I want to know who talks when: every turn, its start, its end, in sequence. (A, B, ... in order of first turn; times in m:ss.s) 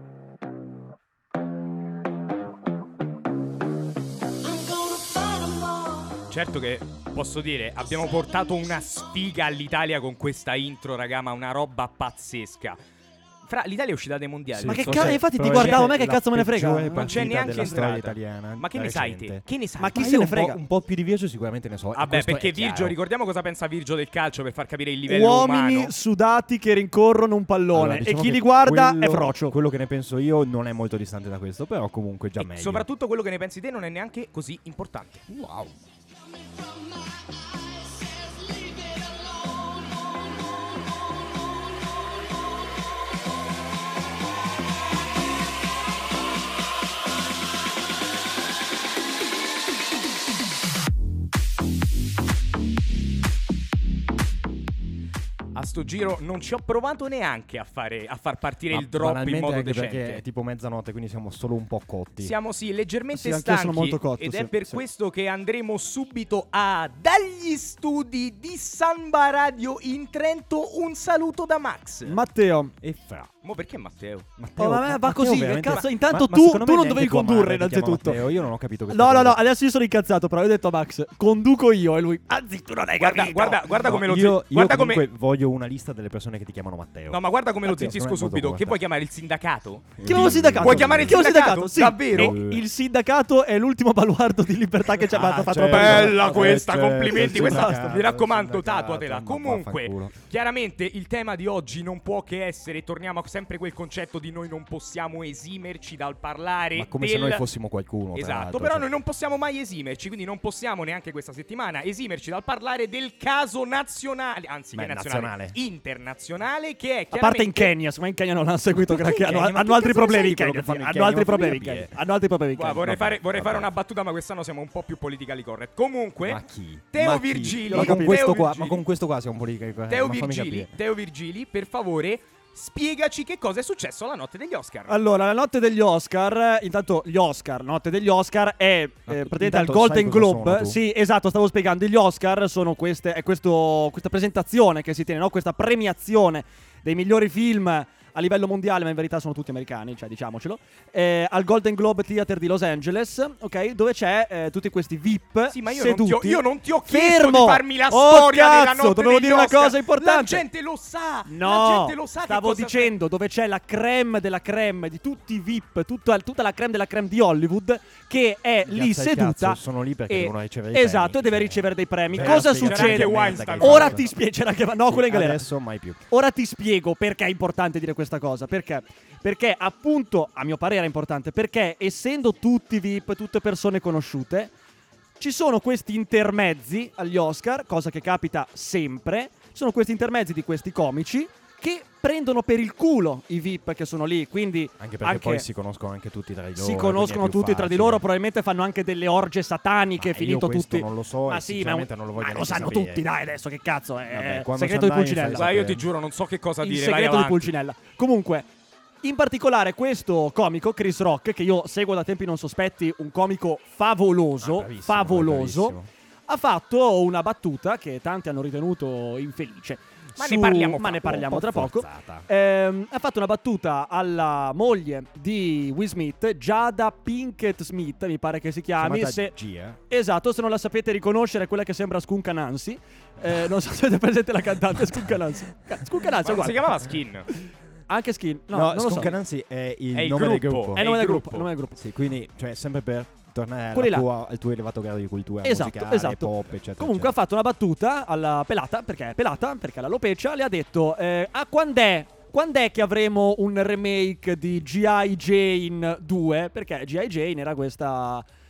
0:06.3-0:12.8 A
0:13.4-0:15.9 A
0:14.5-0:23.0 B
0:14.7-0:17.6 C
0:17.0-0:20.1 A
0:19.8-0:20.6 C
0:21.9-0:25.9 A
0:25.1-0:29.6 C
0:27.7-0:32.8 B
0:32.4-0:35.2 A
0:35.3-0:35.7 B
0:55.5-1:00.2 A
0:58.7-1:02.3 B
1:02.2-1:12.2 A
1:03.1-1:04.8 C
1:12.0-1:12.7 C
1:12.8-1:13.3 B
1:13.4-1:14.3 A
1:14.4-1:19.4 B
1:14.6-1:18.2 C
1:18.9-1:23.7 C
1:23.0-1:25.1 A
1:23.7-1:28.8 B
1:27.1-1:32.4 A
1:30.0-1:31.3 B
1:30.0-1:38.0 C
1:32.1-1:32.6 B
1:35.0-1:40.1 B
1:35.7-1:47.4 A
1:46.7-1:48.9 B
1:48.1-1:57.7 A
1:54.7-1:55.6 B
1:57.1-2:02.9 C
1:58.7-2:02.0 B
2:02.5-2:08.8 A
2:02.8-2:03.7 B
2:06.2-2:10.8 B
2:07.6-2:08.4 C
2:09.9-2:15.0 A
2:14.9-2:40.4 C
2:19.1-2:20.8 B
2:35.5-2:42.9 A
2:41.2-2:55.4 C
2:48.6-2:54.0 B
2:52.2-2:54.0 A
2:54.9-2:56.0 B
2:56.1-3:04.5 C
3:05.2-3:15.4 C
3:14.8-3:18.0 B
3:16.5-3:25.5 C
3:20.0-3:23.0 B
3:24.1-3:25.9 B
3:25.3-3:27.5 A
3:26.6-3:28.5 C
3:29.0-3:35.8 C
3:34.4-3:35.9 B
3:36.3-3:49.3 C
3:40.2-3:41.1 A
3:40.9-3:42.3 B
3:48.8-3:49.8 B
3:49.9-3:56.7 C
3:56.2-3:57.3 A
3:57.9-3:59.2 C
3:58.5-4:00.8 B
3:59.9-4:01.5 A
4:00.8-4:01.8 C
4:01.8-4:07.1 B
4:03.7-4:04.0 C
4:05.4-4:18.2 C